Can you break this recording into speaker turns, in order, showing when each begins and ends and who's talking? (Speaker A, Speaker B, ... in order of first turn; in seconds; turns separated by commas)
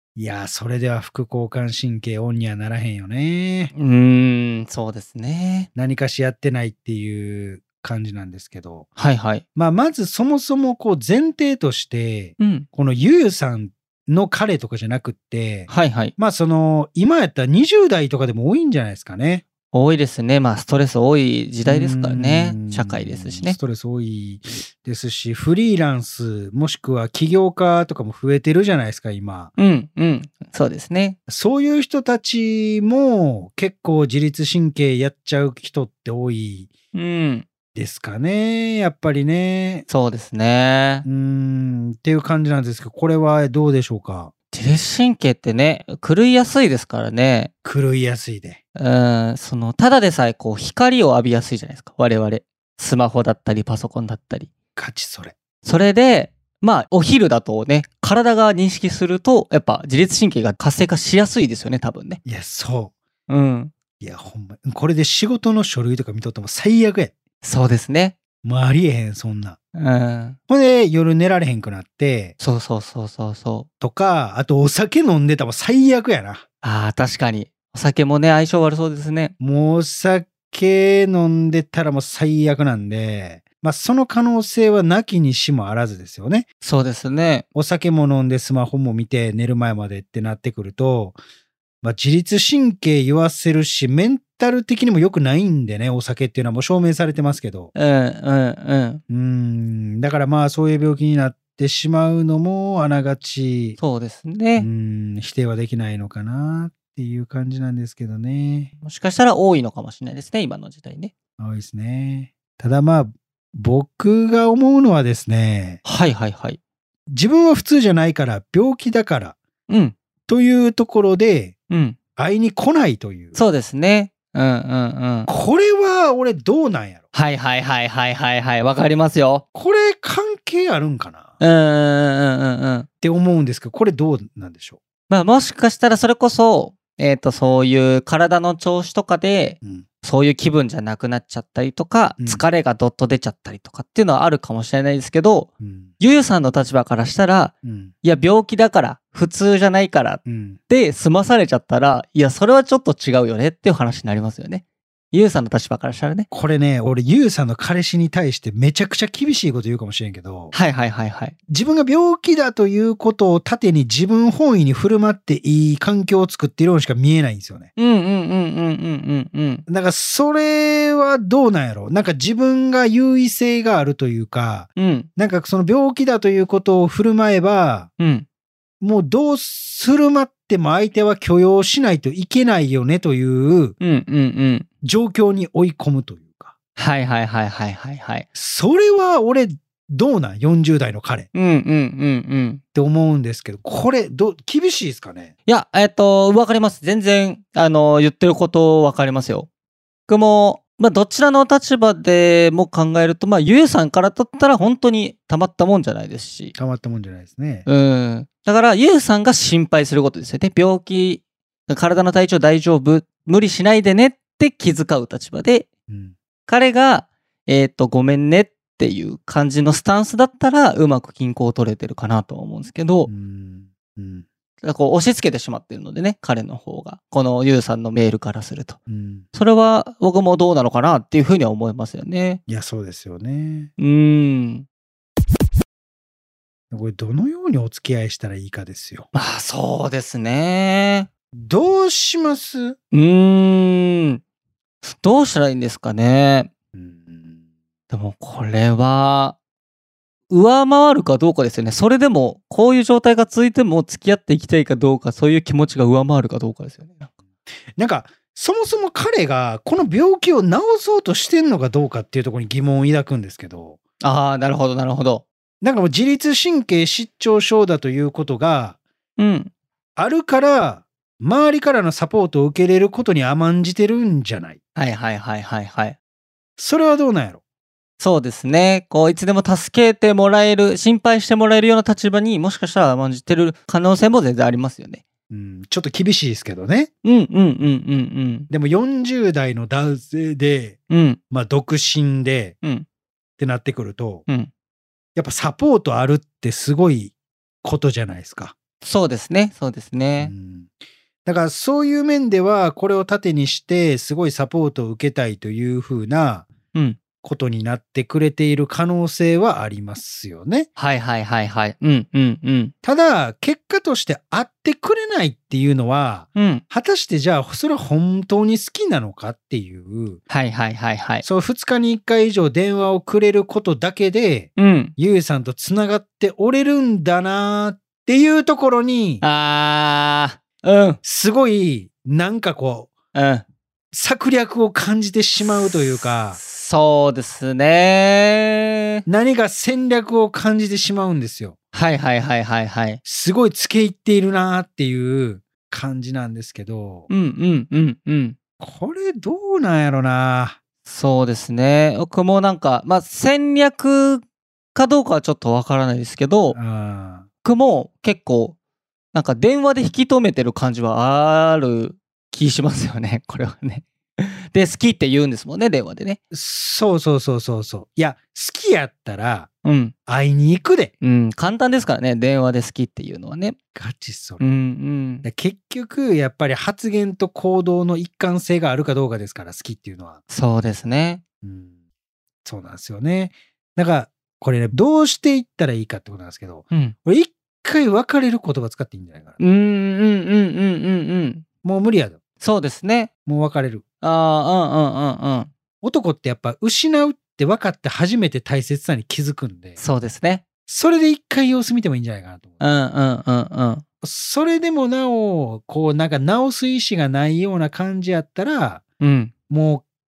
Speaker A: 0.2-3.7, Speaker B: 3.7-5.7, Speaker A: 5.8-8.9, Speaker B: 9.0-9.4, Speaker A: 9.6-19.4, Speaker B: 12.4-12.7, Speaker B: 15.7-16.1, Speaker B: 19.7-23.6, Speaker A: 21.6-29.5, Speaker B: 29.6-31.2, Speaker A: 31.3-36.7, Speaker B: 36.9-37.5, Speaker A: 37.7-39.9, Speaker B: 39.9-41.1, Speaker A: 41.0-44.3, Speaker B: 44.5-47.5, Speaker A: 47.6-48.6, Speaker B: 48.8-54.5, Speaker A: 54.8-55.3, Speaker B: 55.6-62.2, Speaker A: 62.2-62.9, Speaker B: 63.3-63.7, Speaker A: 64.0-67.1, Speaker B: 67.4-68.2, Speaker A: 68.4-69.6, Speaker B: 69.8-70.4, Speaker A: 70.5-72.3, Speaker B: 72.4-73.7, Speaker A: 73.8-76.4, Speaker B: 76.6-79.3, Speaker A: 79.4-86.5, Speaker B: 86.6-87.5, Speaker A: 87.5-91.2, Speaker A: 91.8-97.7, Speaker B: 97.8-99.0, Speaker A: 99.1-103.8, Speaker B: 103.8-104.7, Speaker A: 104.6-108.7, Speaker B: 108.8-111.1, Speaker A: 111.4-115.8, Speaker B: 115.8-116.6, Speaker A: 117.1-119.4, Speaker B: 119.7-120.0, Speaker A: 120.3-121.5, Speaker B: 121.7-122.0, Speaker A: 122.2-123.4, Speaker B: 123.3-125.3, Speaker A: 125.3-127.0, Speaker B: 127.1-129.4, Speaker A: 129.5-131.3, Speaker B: 131.4-132.9, Speaker A: 133.0-134.8, Speaker B: 135.1-156.3, Speaker A: 142.2-142.4, Speaker A: 145.6-145.9, Speaker A: 147.6-147.9, Speaker A: 150.3-150.6, Speaker A: 156.3-160.5, Speaker B: 160.5-161.3, Speaker A: 161.5-167.7, Speaker B: 167.8-169.7, Speaker A: 169.7-177.9, Speaker B: 174.8-175.1, Speaker B: 178.0-178.3, Speaker A: 178.8-183.8, Speaker B: 183.8-184.7, Speaker A: 184.8-186.5, Speaker B: 186.8-188.3, Speaker A: 188.3-191.3, Speaker B: 191.3-192.6, Speaker A: 192.7-195.3, Speaker B: 195.5-199.5, Speaker B: 200.1-206.6, Speaker A: 206.6-207.7, Speaker B: 207.7-215.7, Speaker A: 215.9-216.2, Speaker B: 216.5-223.1, Speaker A: 223.1-224.3, Speaker B: 224.6-228.8, Speaker A: 228.9-229.3, Speaker B: 229.3-232.4, Speaker A: 232.5-233.7, Speaker B: 233.8-234.7, Speaker A: 236.7-239.1, Speaker B: 239.1-241.1, Speaker A: 241.3-242.8, Speaker B: 242.9-244.2, Speaker B: 244.8-246.5, Speaker A: 246.7-247.4, Speaker B: 247.9-249.4, Speaker B: 250.3-257.1, Speaker A: 257.8-263.8, Speaker B: 264.0-265.2, Speaker A: 265.6-268.8, Speaker B: 269.2-269.5, Speaker A: 270.0-274.6, Speaker B: 274.8-276.0, Speaker A: 276.6-277.4, Speaker B: 278.0-285.0, Speaker A: 285.3-286.9, Speaker B: 287.0-288.5, Speaker A: 288.5-290.8, Speaker B: 290.9-291.2, Speaker A: 291.3-292.6, Speaker A: 293.4-294.2, Speaker A: 295.1-298.5, Speaker B: 298.8-300.3, Speaker A: 300.2-306.5, Speaker B: 306.7-307.0, Speaker A: 307.2-310.7, Speaker B: 310.8-312.7, Speaker A: 312.8-320.2, Speaker B: 316.4-316.6, Speaker B: 320.3-321.2, Speaker A: 321.2-329.2, Speaker B: 324.6-324.9, Speaker B: 329.2-331.0, Speaker A: 331.0-332.9, Speaker B: 333.1-333.4, Speaker A: 333.9-336.4, Speaker B: 336.4-339.1, Speaker A: 339.1-341.6, Speaker B: 341.7-343.0, Speaker A: 343.0-347.1, Speaker B: 347.1-348.4, Speaker A: 348.6-350.6, Speaker B: 350.9-354.2, Speaker B: 354.8-356.6, Speaker A: 356.5-357.3, Speaker B: 357.4-358.6, Speaker B: 359.1-366.2, Speaker A: 366.3-369.5, Speaker B: 369.6-369.9, Speaker A: 370.1-370.9, Speaker B: 371.0-373.6, Speaker A: 373.7-374.4, Speaker B: 374.4-375.3, Speaker A: 375.2-380.2, Speaker B: 380.3-381.2, Speaker A: 381.4-381.7, Speaker A: 382.4-389.4, Speaker B: 389.4-391.4, Speaker A: 391.6-392.2, Speaker B: 392.4-393.1, Speaker A: 393.3-393.8, Speaker B: 394.0-395.5, Speaker A: 395.8-399.8, Speaker B: 399.8-400.4, Speaker A: 400.7-402.6, Speaker B: 402.6-403.8, Speaker A: 404.0-408.8, Speaker B: 409.0-409.3, Speaker A: 409.5-409.8